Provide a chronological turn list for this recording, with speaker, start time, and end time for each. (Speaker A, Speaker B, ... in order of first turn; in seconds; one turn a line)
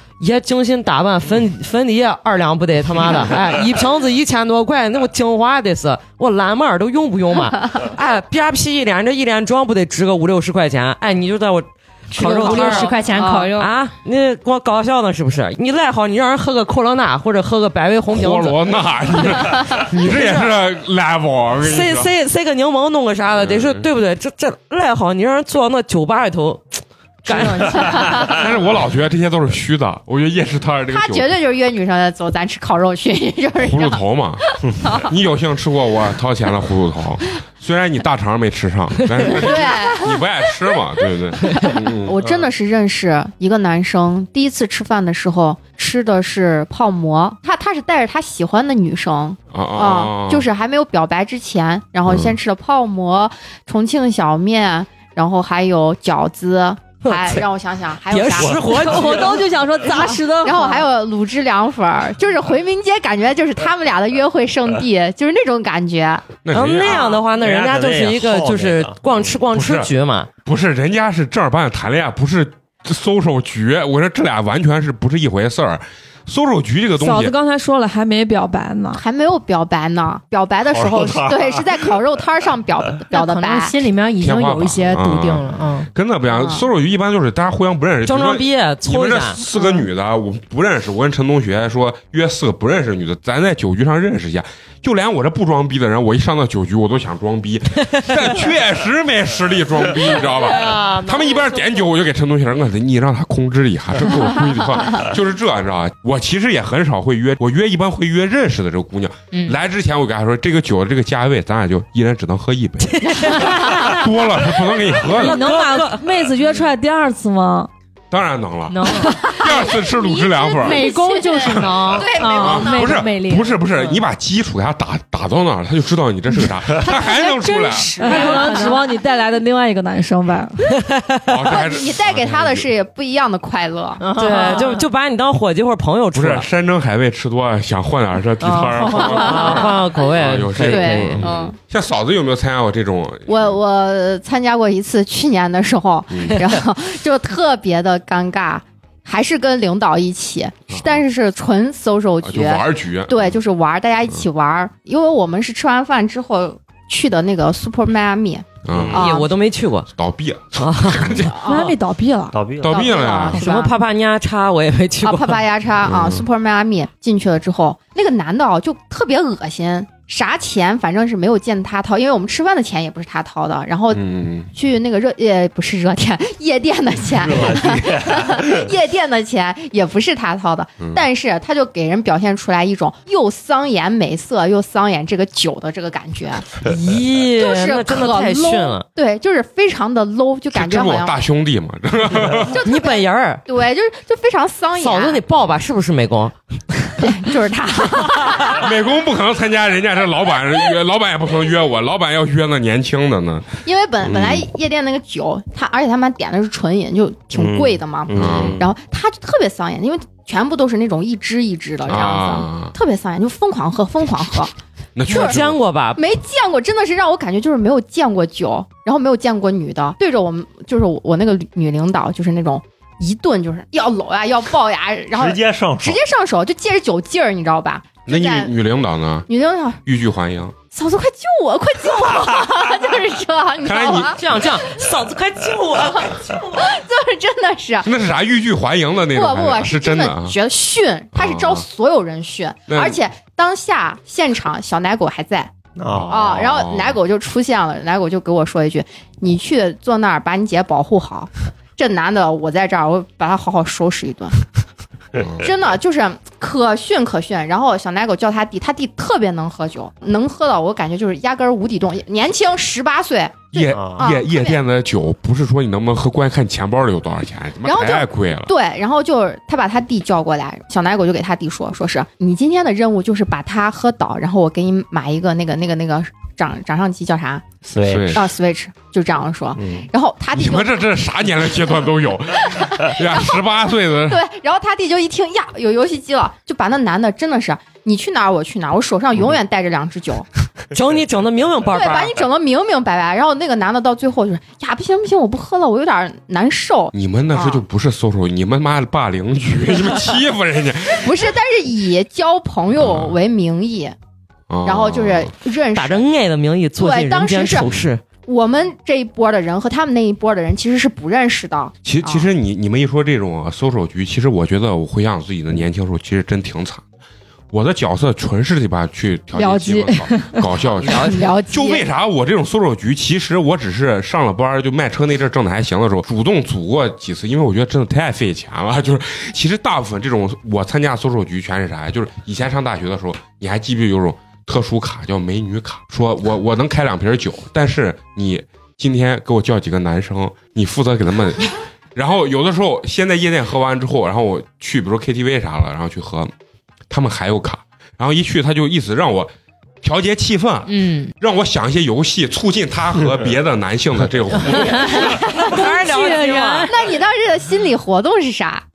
Speaker A: 0.2-13.0
Speaker B: 12.1-13.7
Speaker C: 12.4-13.5
Speaker A: 13.6-20.5
Speaker D: 18.1-22.1
Speaker A: 21.6-28.2
Speaker D: 23.4-23.9
Speaker B: 27.3-28.3
Speaker C: 27.9-28.2
Speaker D: 28.2-31.3
Speaker C: 30.9-34.0
Speaker D: 33.6-42.2
Speaker C: 34.6-35.1
Speaker C: 39.2-40.8
Speaker C: 41.5-59.3
Speaker D: 49.5-50.5
Speaker D: 52.1-52.4
Speaker A: 57.0-57.4
Speaker A: 58.1-59.4
Speaker E: 58.6-60.9
Speaker C: 59.8-66.3
Speaker D: 66.4-67.2
Speaker A: 66.5-70.3
Speaker F: 66.9-69.4
Speaker D: 69.5-69.9
Speaker D: 70.4-77.3
Speaker E: 77.0-79.0
Speaker C: 78.9-83.8
Speaker F: 80.7-82.0
Speaker B: 83.1-85.9
Speaker D: 84.2-115.5
Speaker C: 86.3-86.7
Speaker A: 88.0-89.4
Speaker C: 89.5-89.9
Speaker A: 100.0-101.9
Speaker A: 113.2-114.0
Speaker E: 115.0-117.7
Speaker A: 115.2-116.1
Speaker D: 118.1-120.8
Speaker B: 118.7-119.3
Speaker C: 119.2-123.1
Speaker B: 120.6-124.0
Speaker D: 121.5-128.0
Speaker C: 126.8-128.8
Speaker B: 126.9-129.0
Speaker E: 128.0-130.7
Speaker A: 130.8-131.3
Speaker D: 131.3-132.6
Speaker C: 131.5-134.0
Speaker B: 134.0-134.8
Speaker A: 134.2-136.5
Speaker D: 136.1-143.6
Speaker A: 138.4-141.3
Speaker B: 138.5-139.3
Speaker C: 138.9-139.7
Speaker C: 140.6-141.6
Speaker C: 143.3-159.3
Speaker D: 146.1-146.4
Speaker D: 150.7-151.0
Speaker D: 152.2-153.4
Speaker D: 158.7-159.1
Speaker F: 158.7-159.0
Speaker A: 158.9-159.9
Speaker D: 159.9-161.4
Speaker A: 160.5-161.2
Speaker C: 161.2-161.8
Speaker E: 161.4-162.4
Speaker F: 162.3-163.1
Speaker D: 162.6-163.4
Speaker C: 162.7-163.7
Speaker E: 163.3-163.7
Speaker A: 163.4-165.4
Speaker C: 165.0-186.4
Speaker D: 165.8-166.2
Speaker D: 173.9-174.5
Speaker F: 177.2-178.6
Speaker A: 186.6-188.8
Speaker C: 187.4-191.2
Speaker D: 190.5-192.6
Speaker C: 192.5-195.2
Speaker A: 192.6-193.4
Speaker A: 194.7-196.3
Speaker C: 197.0-198.7
Speaker D: 198.5-203.5
Speaker C: 203.6-214.5
Speaker D: 204.0-204.5
Speaker F: 207.3-208.6
Speaker D: 208.1-208.6
Speaker D: 211.8-212.7
Speaker D: 214.9-215.6
Speaker C: 215.1-215.4
Speaker A: 215.1-216.0
Speaker C: 215.9-228.5
Speaker F: 225.1-226.0
Speaker D: 228.1-229.3
Speaker C: 229.3-229.8
Speaker D: 229.8-230.5
Speaker C: 230.7-234.2
Speaker D: 233.6-234.2
Speaker A: 234.2-236.2
Speaker C: 236.0-237.9
Speaker D: 237.8-240.3
Speaker C: 239.1-254.4
Speaker D: 241.1-241.6
Speaker D: 242.7-243.0
Speaker F: 245.8-246.5
Speaker D: 246.0-247.0
Speaker D: 255.2-255.5
Speaker C: 255.4-264.6
Speaker D: 263.5-268.5
Speaker F: 263.7-264.1
Speaker C: 267.6-277.5
Speaker F: 277.6-278.2
Speaker D: 277.8-278.2
Speaker C: 278.1-280.9
Speaker F: 279.6-279.9
Speaker D: 280.3-284.2
Speaker C: 281.5-281.8
Speaker C: 282.4-290.2
Speaker A: 290.7-292.1
Speaker C: 291.7-297.6
Speaker D: 296.9-301.1
Speaker C: 301.0-303.9
Speaker D: 302.8-303.2
Speaker D: 304.5-305.3
Speaker C: 304.6-306.0
Speaker A: 305.7-308.0
Speaker C: 306.8-307.7
Speaker C: 308.2-312.3
Speaker D: 311.8-316.8
Speaker D: 317.5-346.3
Speaker E: 319.4-320.4
Speaker A: 320.8-321.2
Speaker C: 320.9-321.9
Speaker D: 346.9-349.3
Speaker D: 349.8-355.2
Speaker B: 350.7-351.1
Speaker C: 354.9-355.3
Speaker A: 355.1-356.7
Speaker E: 355.5-356.7
Speaker C: 356.7-358.6